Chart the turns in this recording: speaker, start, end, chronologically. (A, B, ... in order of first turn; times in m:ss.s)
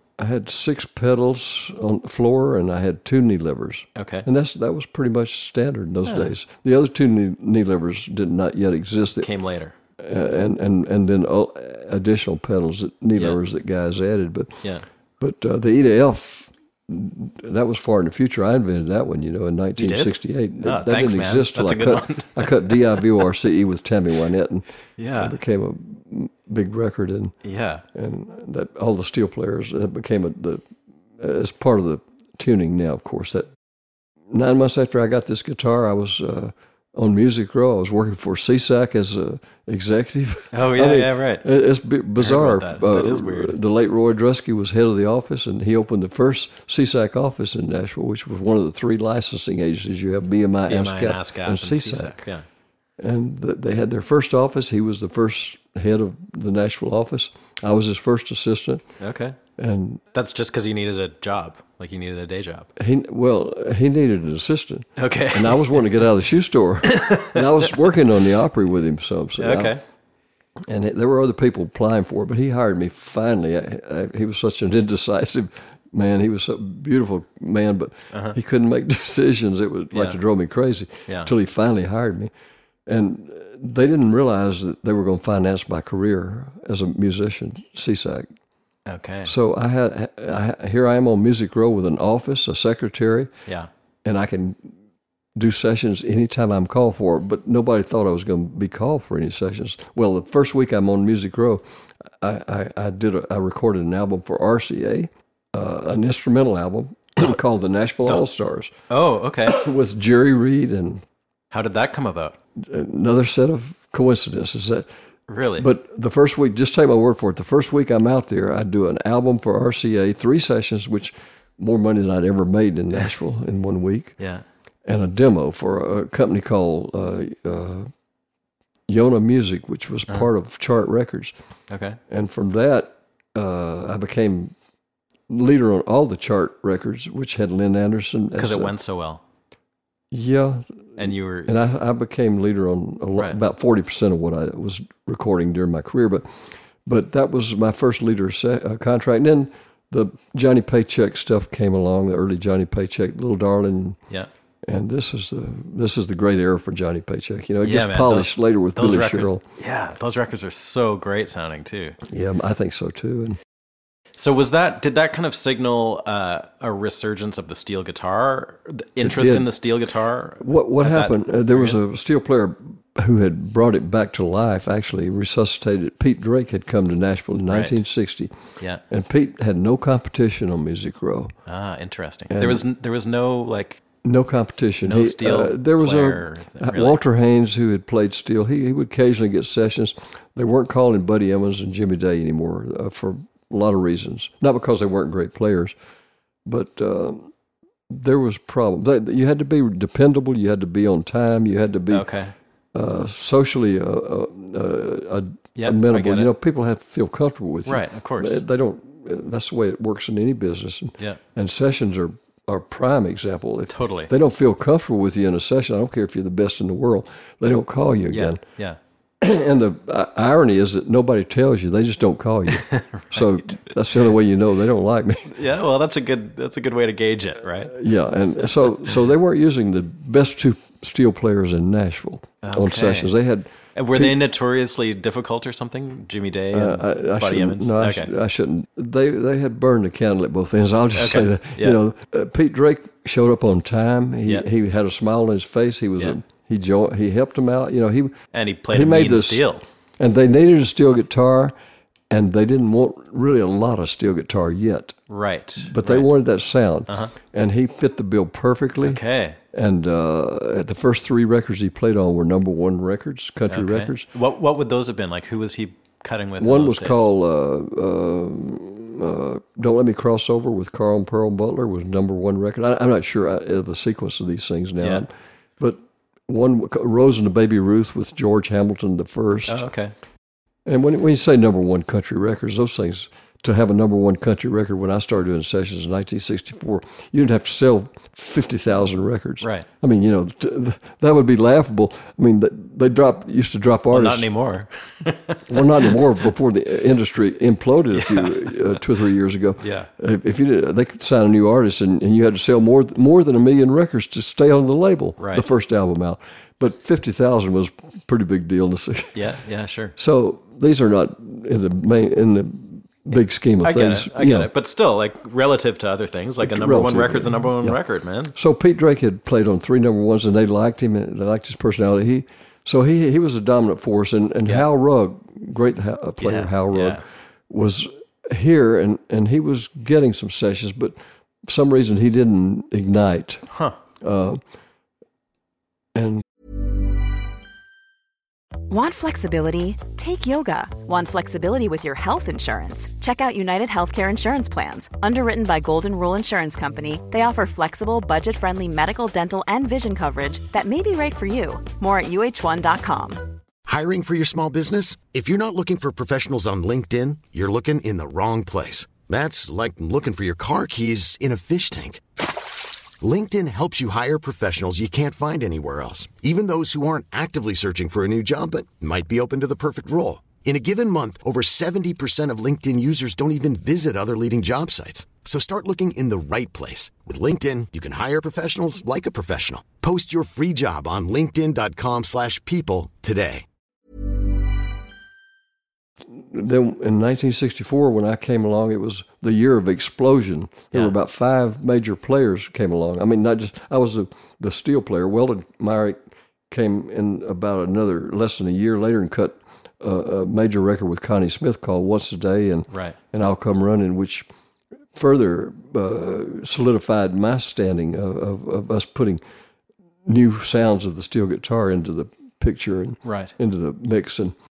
0:00.2-0:09.3 A
0:04.0-0:04.3 B
0:06.1-0:06.3 B
0:09.2-0:09.8 B
0:10.0-0:14.6 A
0:15.2-0:27.4 A
0:19.8-0:23.0 B
0:25.0-0:25.4 B
0:27.4-0:27.8 B
0:27.9-0:30.6 A
0:31.2-0:33.5 A
0:34.3-0:52.2 A
0:40.5-0:41.5 B
0:42.2-0:43.6 B
0:50.7-0:52.4 B
0:53.0-0:58.9 A
0:59.0-0:59.4 B
0:59.6-1:00.0 A
1:00.1-1:02.7 B
1:02.8-1:09.8 A
1:05.0-1:06.0 B
1:06.9-1:07.7 B
1:09.4-1:09.8 B
1:10.7-1:22.3 A
1:18.1-1:18.4 B
1:19.9-1:20.2 B
1:22.9-1:28.3 A
1:28.9-1:29.3 B
1:29.2-1:33.3 A
1:34.0-1:34.7 A
1:35.4-1:41.6 A
1:42.2-1:48.7 A
1:48.9-1:49.6 B
1:49.4-1:51.0 A
1:51.5-1:52.4 B
1:52.6-1:54.9 A
1:55.3-1:55.7 B
1:55.6-2:04.2 A
2:04.2-2:04.4 B
2:04.8-2:07.9 A
2:08.9-2:11.3 A
2:11.7-2:12.0 B
2:12.1-2:14.6 A
2:15.3-2:18.8 A
2:18.4-2:19.2 B
2:20.1-2:34.0 A
2:21.0-2:21.5 B
2:34.6-2:39.4 A
2:37.6-2:42.0 B
2:42.1-2:43.4 A
2:44.2-2:51.8 B
2:49.0-2:49.5 A
2:50.4-2:58.3 A
2:57.5-2:57.8 B
2:58.9-3:01.3 A
3:01.5-3:03.8 B
3:02.3-3:02.7 A
3:04.0-3:15.8 A
3:04.8-3:07.0 B
3:16.5-3:17.3 A
3:17.9-3:22.1 A
3:21.9-3:22.3 B
3:22.7-3:38.4 A
3:25.6-3:26.3 B
3:27.7-3:28.4 B
3:33.7-3:34.1 B
3:38.1-3:38.8 B
3:39.2-3:45.4 A
3:42.6-3:43.6 B
3:45.3-3:47.7 B
3:47.7-3:54.2 A
3:52.4-3:53.1 B
3:53.8-3:58.1 B
3:56.5-4:08.2 A
4:00.9-4:01.8 B
4:08.3-4:09.6 B
4:08.7-4:09.5 A
4:10.0-4:11.6 A
4:12.1-4:15.0 A
4:15.1-4:16.1 B
4:15.6-4:19.0 A
4:16.9-4:17.1 B
4:18.8-4:19.4 B
4:19.5-4:24.1 A
4:23.5-4:27.0 B
4:26.4-4:39.6 A
4:39.5-4:39.9 B
4:40.7-4:54.3 A
4:49.4-4:49.7 B
4:53.9-4:56.0 B
4:55.5-5:09.2 A
4:57.9-4:58.7 B
4:59.6-4:59.9 B
5:05.2-5:05.5 B
5:09.2-5:10.0 B
5:10.0-5:14.5 A
5:13.6-5:18.3 B
5:16.4-5:17.8 A
5:18.3-5:33.5 A
5:26.2-5:27.0 B
5:33.5-5:33.8 B
5:34.0-5:34.4 A
5:35.9-5:36.2 A
5:38.7-5:53.2 C
5:53.7-6:02.0 D
6:03.0-6:23.4 D
6:26.1-6:44.3 A
6:42.7-6:43.0 B
6:45.0-6:49.2 A
6:50.0-6:54.4 A
6:53.0-6:53.3 B